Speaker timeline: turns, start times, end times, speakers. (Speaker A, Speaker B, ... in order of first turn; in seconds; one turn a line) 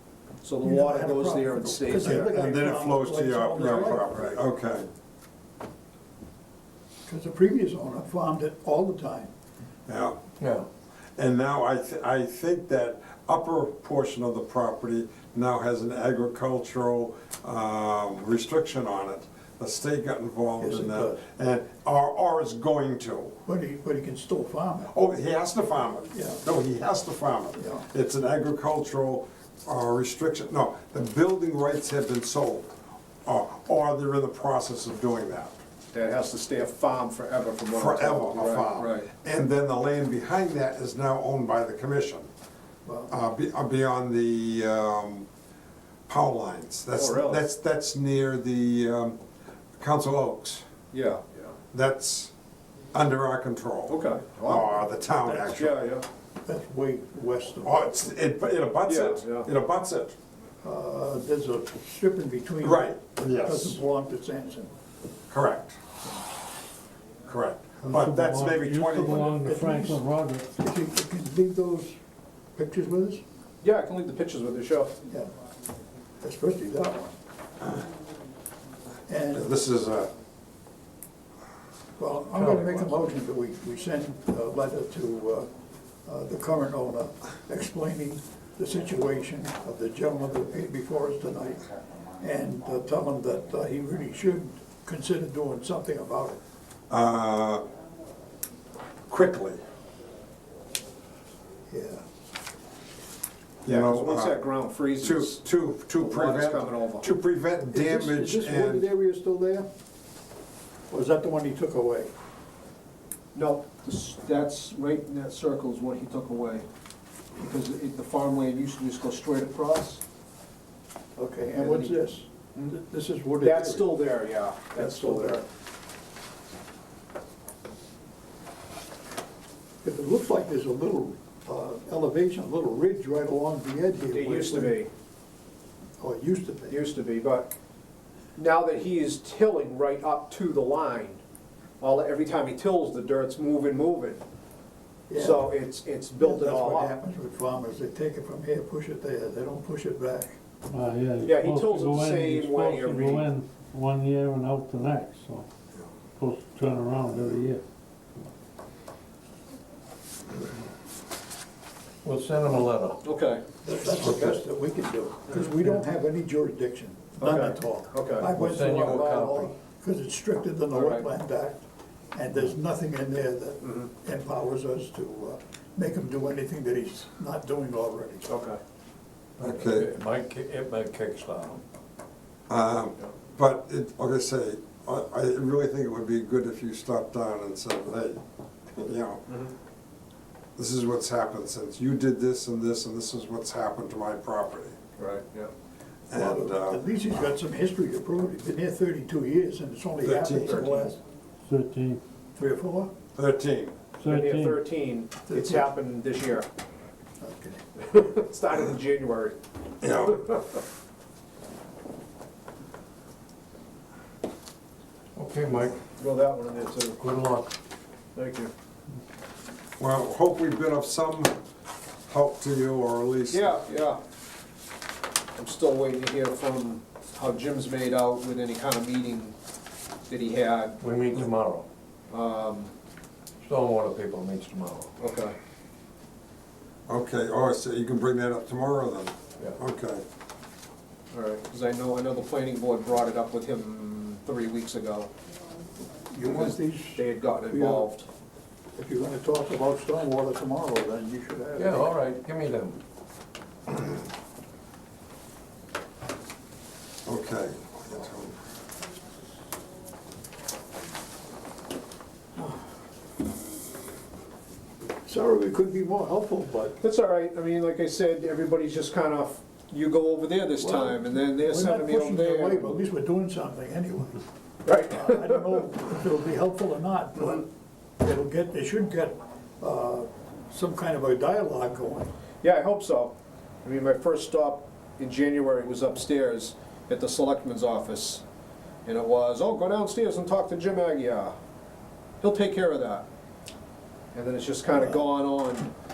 Speaker A: 0.4-2.3
Speaker B: 0.6-4.4
Speaker C: 2.0-4.9
Speaker B: 7.1-9.3
Speaker C: 9.9-10.2
Speaker D: 10.4-10.7
Speaker C: 11.2-23.4
Speaker B: 20.6-21.2
Speaker B: 23.5-24.9
Speaker C: 24.9-35.6
Speaker B: 26.1-26.4
Speaker B: 27.6-27.9
Speaker A: 35.9-39.1
Speaker C: 37.7-42.3
Speaker B: 42.9-43.1
Speaker C: 43.1-45.3
Speaker C: 46.1-49.2
Speaker A: 46.9-47.5
Speaker C: 49.8-50.7
Speaker A: 50.9-51.2
Speaker C: 51.7-52.3
Speaker C: 52.9-55.8
Speaker A: 53.9-54.8
Speaker B: 55.2-55.5
Speaker A: 55.5-56.1
Speaker B: 56.5-58.1
Speaker C: 57.6-60.2
Speaker A: 58.9-59.5
Speaker B: 60.6-64.7
Speaker C: 62.6-63.8
Speaker C: 65.3-65.8
Speaker C: 67.3-69.3
Speaker E: 67.9-70.5
Speaker B: 69.3-71.9
Speaker B: 72.6-73.2
Speaker A: 73.6-74.9
Speaker B: 76.2-77.1
Speaker B: 79.1-79.5
Speaker C: 79.3-80.1
Speaker B: 82.0-85.5
Speaker E: 82.4-82.9
Speaker B: 86.1-91.6
Speaker B: 92.2-96.4
Speaker C: 96.9-97.7
Speaker C: 99.1-99.6
Speaker B: 101.7-102.0
Speaker C: 103.7-104.4
Speaker A: 103.7-105.4
Speaker C: 105.0-108.9
Speaker A: 106.0-107.1
Speaker B: 107.7-109.7
Speaker B: 110.9-112.1
Speaker A: 113.3-116.7
Speaker A: 117.4-120.0
Speaker B: 121.2-124.0
Speaker A: 121.6-122.8
Speaker A: 123.4-125.5
Speaker B: 124.8-125.4
Speaker B: 129.8-134.8
Speaker A: 134.1-134.9
Speaker B: 136.0-136.8
Speaker A: 136.7-137.5
Speaker A: 138.4-141.2
Speaker A: 141.8-144.2
Speaker B: 145.1-145.5
Speaker A: 145.1-146.9
Speaker B: 146.2-150.4
Speaker E: 150.7-155.5
Speaker A: 151.2-153.3
Speaker E: 156.2-157.6
Speaker D: 162.0-163.0
Speaker A: 163.0-164.4
Speaker B: 163.6-178.3
Speaker A: 167.2-168.3
Speaker D: 168.4-169.4
Speaker A: 170.7-171.1
Speaker A: 173.6-173.9
Speaker A: 178.2-178.6
Speaker D: 179.4-181.6
Speaker C: 179.4-179.9
Speaker C: 182.5-188.2
Speaker C: 188.7-189.2
Speaker C: 190.6-194.8
Speaker A: 195.0-195.5
Speaker C: 196.1-196.8
Speaker B: 196.1-201.0
Speaker C: 200.0-200.7
Speaker A: 200.4-200.9
Speaker E: 201.4-202.0
Speaker B: 202.4-202.9
Speaker C: 203.2-203.8
Speaker E: 204.0-204.6
Speaker A: 204.0-206.5
Speaker B: 205.3-205.7
Speaker B: 207.2-207.6
Speaker A: 207.8-209.4
Speaker C: 209.8-210.2
Speaker A: 210.0-210.6
Speaker D: 215.2-215.8
Speaker A: 215.9-217.0
Speaker D: 217.0-217.5
Speaker A: 218.2-218.5
Speaker C: 219.8-221.4
Speaker C: 222.1-223.6
Speaker A: 223.3-224.0
Speaker A: 225.4-229.3
Speaker A: 230.1-230.8
Speaker D: 230.8-231.7
Speaker A: 232.1-232.7
Speaker D: 233.4-234.9
Speaker A: 235.0-235.3
Speaker C: 236.9-240.0
Speaker A: 241.1-245.1
Speaker B: 246.1-247.9
Speaker A: 246.2-248.1
Speaker B: 248.8-251.9
Speaker D: 251.6-252.8
Speaker C: 257.1-258.4
Speaker B: 265.1-266.8
Speaker A: 266.8-272.8
Speaker B: 270.6-274.2
Speaker A: 274.7-275.6
Speaker B: 274.7-277.5
Speaker B: 278.0-282.1
Speaker A: 282.4-288.2
Speaker A: 288.9-291.3
Speaker A: 292.2-293.1
Speaker A: 294.1-295.7